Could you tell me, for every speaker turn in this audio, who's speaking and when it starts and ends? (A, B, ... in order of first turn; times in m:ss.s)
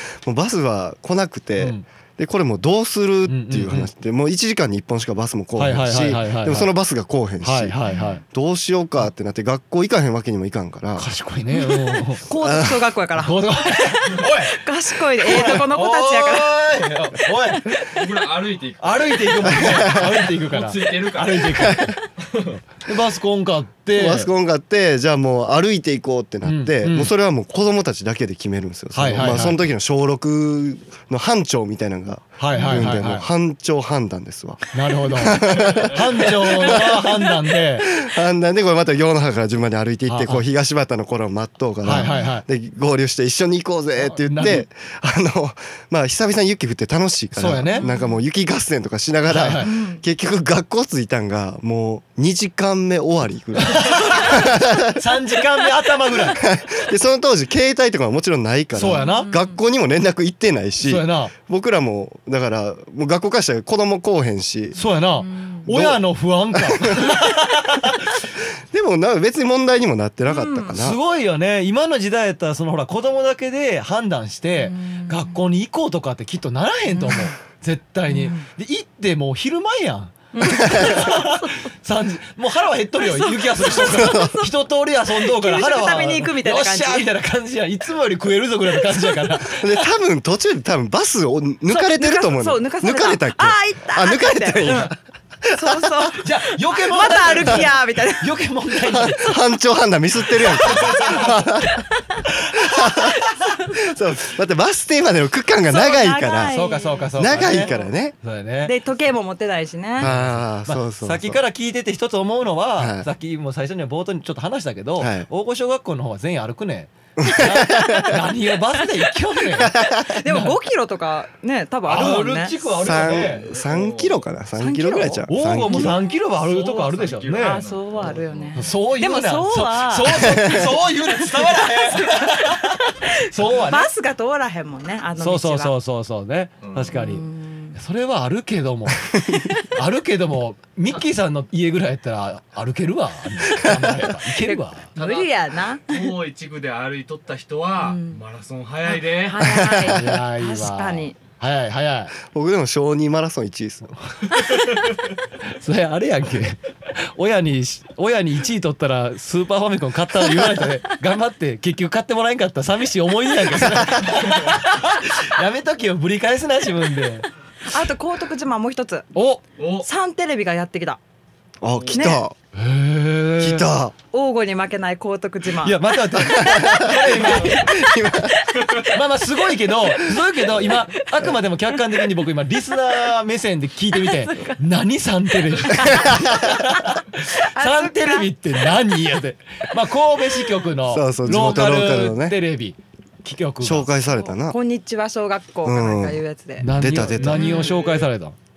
0:00.2-0:07.8 A
0:01.6-0:01.9 B
0:03.3-0:03.9 B
0:05.6-0:06.7 B
0:07.4-0:08.2 B
0:07.9-0:08.2 C
0:08.3-0:11.1 A
0:11.0-0:12.2 B
0:11.5-0:16.5 C
0:12.4-0:12.8 A
0:13.2-0:14.6 B
0:15.2-0:17.8 B
0:17.5-0:18.0 C
0:17.9-0:22.6 D
0:18.8-0:22.0 B
0:19.5-0:20.1 A
0:21.6-0:21.9 A
0:22.8-0:24.3 B
0:23.9-0:37.2 A
0:26.4-0:27.1 B
0:28.9-0:29.6 B
0:32.4-0:33.3 B
0:32.5-0:32.9 C
0:34.7-0:38.0 B
0:37.8-0:55.0 A
0:40.1-0:40.4 B
0:41.8-0:42.4 B
0:41.9-0:42.4 C
0:44.0-0:44.6 B
0:47.4-0:47.9 B
0:47.8-0:48.2 C
0:49.3-0:49.7 B
0:49.6-0:50.0 C
0:53.6-0:56.4 B
0:56.3-1:04.8 A
0:58.7-0:59.3 B
0:58.9-0:59.6 C
1:00.8-1:01.3 B
1:04.8-1:08.2 B
1:05.2-1:05.7 C
1:05.7-1:06.0 A
1:06.5-1:07.3 A
1:08.7-1:11.0 A
1:10.3-1:10.8 C
1:10.7-1:29.8 B
1:14.6-1:15.4 C
1:16.9-1:17.4 C
1:18.1-1:18.5 C
1:20.3-1:21.6 C
1:20.6-1:21.0 A
1:23.0-1:24.5 C
1:24.0-1:24.3 A
1:25.2-1:27.1 C
1:29.5-1:35.9 A
1:31.7-1:34.9 C
1:35.5-1:38.3 C
1:36.2-1:39.4 B
1:38.9-1:41.8 A
1:40.4-1:41.4 B
1:40.9-1:41.2 C
1:41.8-1:42.2 C
1:42.3-1:43.1 B
1:42.6-1:46.6 A
1:43.1-1:43.7 C
1:45.7-1:47.9 C
1:46.5-1:48.8 B
1:47.2-1:48.2 A
1:48.6-1:50.1 C
1:50.0-1:51.4 A
1:50.0-2:00.6 B
1:52.8-1:53.1 A
1:55.0-1:55.3 A
1:57.2-1:58.2 A
1:57.6-1:58.2 C
1:59.6-2:00.2 A
2:00.0-2:02.6 C
2:01.9-2:03.4 B
2:02.8-2:06.0 A
2:02.9-2:04.2 D
2:04.6-2:06.0 C
2:05.3-2:07.6 B
2:06.3-2:08.7 D
2:07.4-2:10.4 C
2:08.6-2:13.9 B
2:10.2-2:10.7 A
2:11.2-2:15.7 C
2:15.2-2:24.9 B
2:16.6-2:17.0 D
2:16.9-2:17.8 C
2:19.3-2:19.7 C
2:23.6-2:23.9 A
2:24.4-2:26.1 C
2:25.0-2:25.3 D
2:25.9-2:29.5 D
2:27.8-2:28.2 C
2:28.9-2:31.2 C
2:29.6-2:30.0 A
2:29.9-2:32.2 B
2:32.2-2:33.9 A
2:34.5-2:35.0 D
2:35.5-2:47.3 B
2:43.7-2:44.0 A
2:44.0-2:44.6 D
2:47.6-2:49.1 C
2:49.2-2:49.4 B
2:49.6-2:49.9 D
2:49.8-2:51.0 C
2:51.6-2:52.4 A
2:51.7-2:52.2 D
2:51.9-2:52.2 C
2:52.6-2:53.7 B
2:53.4-2:53.9 A
2:54.1-2:59.0 C
2:55.6-2:57.6 B
2:56.3-2:58.4 A
2:57.3-2:57.5 D
2:58.6-2:58.9 D
2:58.8-3:13.9 B
3:00.0-3:00.8 C
3:03.9-3:04.6 C
3:05.6-3:08.7 C
3:10.9-3:12.4 A
3:13.6-3:14.6 A
3:14.1-3:16.7 C
3:15.6-3:16.2 A
3:16.6-3:18.4 B
3:16.7-3:17.7 A
3:17.3-3:17.9 C
3:17.4-3:18.0 D